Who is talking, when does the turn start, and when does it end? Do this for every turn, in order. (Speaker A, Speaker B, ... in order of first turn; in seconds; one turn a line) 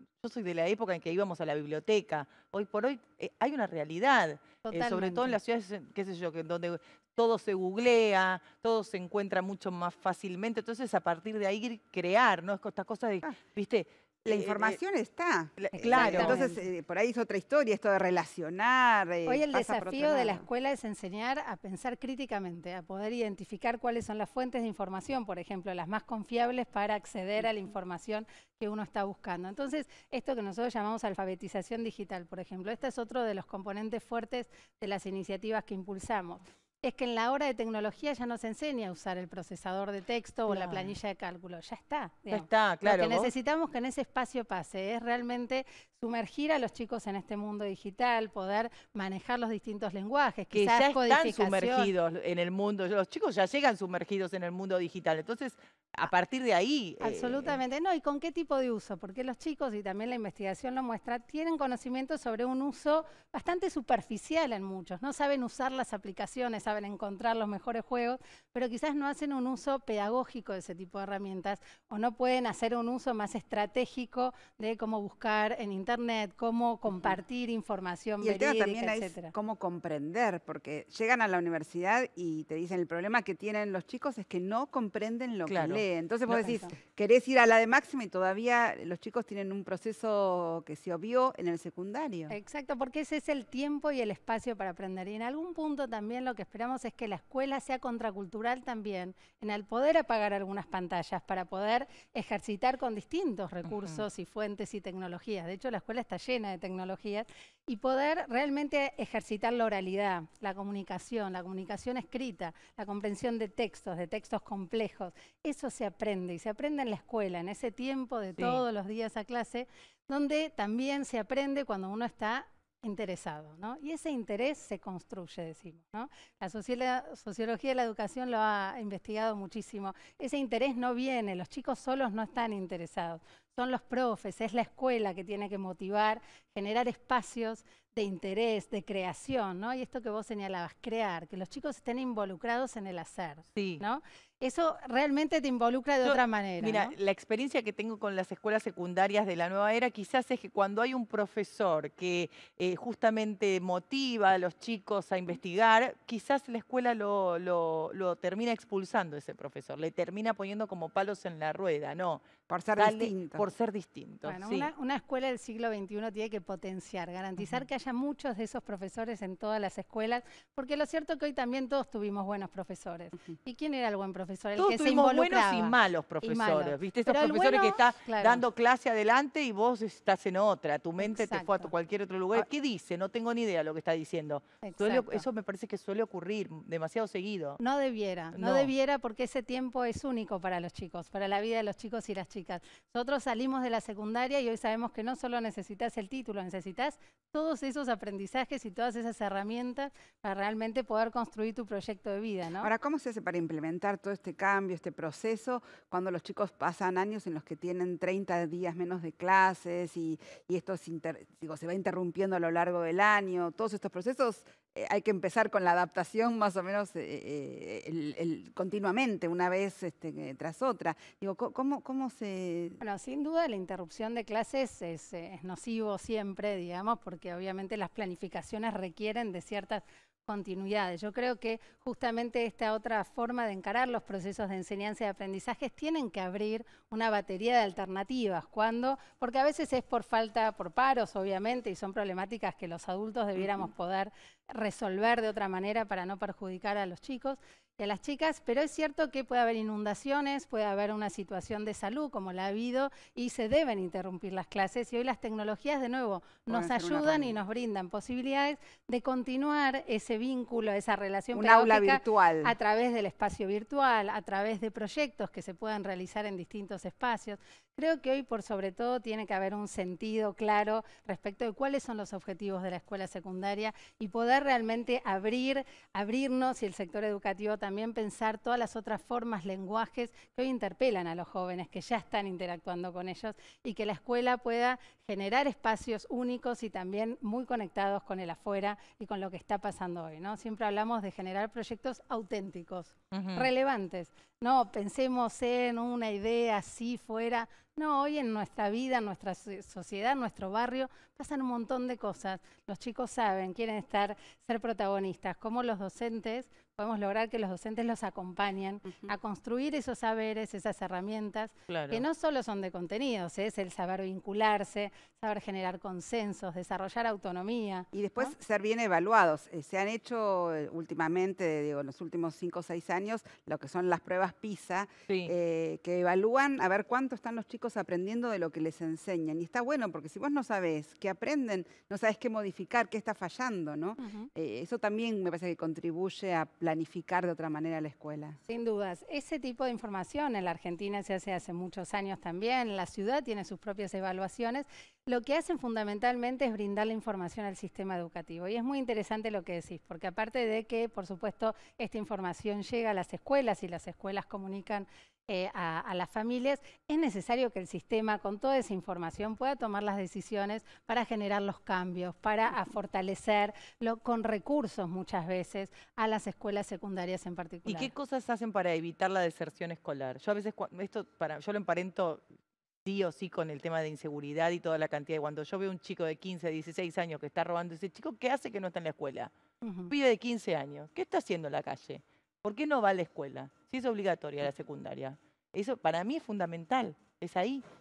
Speaker A: 0.2-14.8
Speaker B: 4.7-5.4
Speaker C: 14.2-20.5
Speaker A: 15.6-16.5
Speaker B: 15.8-16.6
Speaker B: 19.3-51.9
Speaker A: 40.5-40.9
Speaker A: 42.3-43.3
Speaker A: 50.5-57.6
Speaker B: 57.0-79.3
Speaker C: 78.2-92.3
Speaker A: 85.5-85.8
Speaker B: 86.3-86.8
Speaker B: 92.3-146.9
Speaker A: 103.7-104.0
Speaker A: 118.4-118.6
Speaker A: 143.5-143.8
Speaker A: 146.0-162.2
Speaker C: 162.5-163.5
Speaker A: 162.8-164.7
Speaker B: 164.2-178.4
Speaker A: 174.6-187.6
Speaker B: 181.0-181.7
Speaker B: 184.6-185.2
Speaker B: 187.6-202.7
Speaker A: 188.3-188.7
Speaker C: 202.6-222.8
Speaker B: 222.8-318.3
Speaker C: 243.4-243.7
Speaker C: 256.5-257.4
Speaker C: 261.3-262.6
Speaker A: 293.1-293.5
Speaker A: 311.7-312.1
Speaker C: 317.9-338.4
Speaker A: 325.1-325.3
Speaker B: 334.0-334.3
Speaker B: 338.5-367.9
Speaker A: 367.7-372.2
Speaker A: 372.9-379.3
Speaker B: 379.6-379.9
Speaker A: 379.9-387.6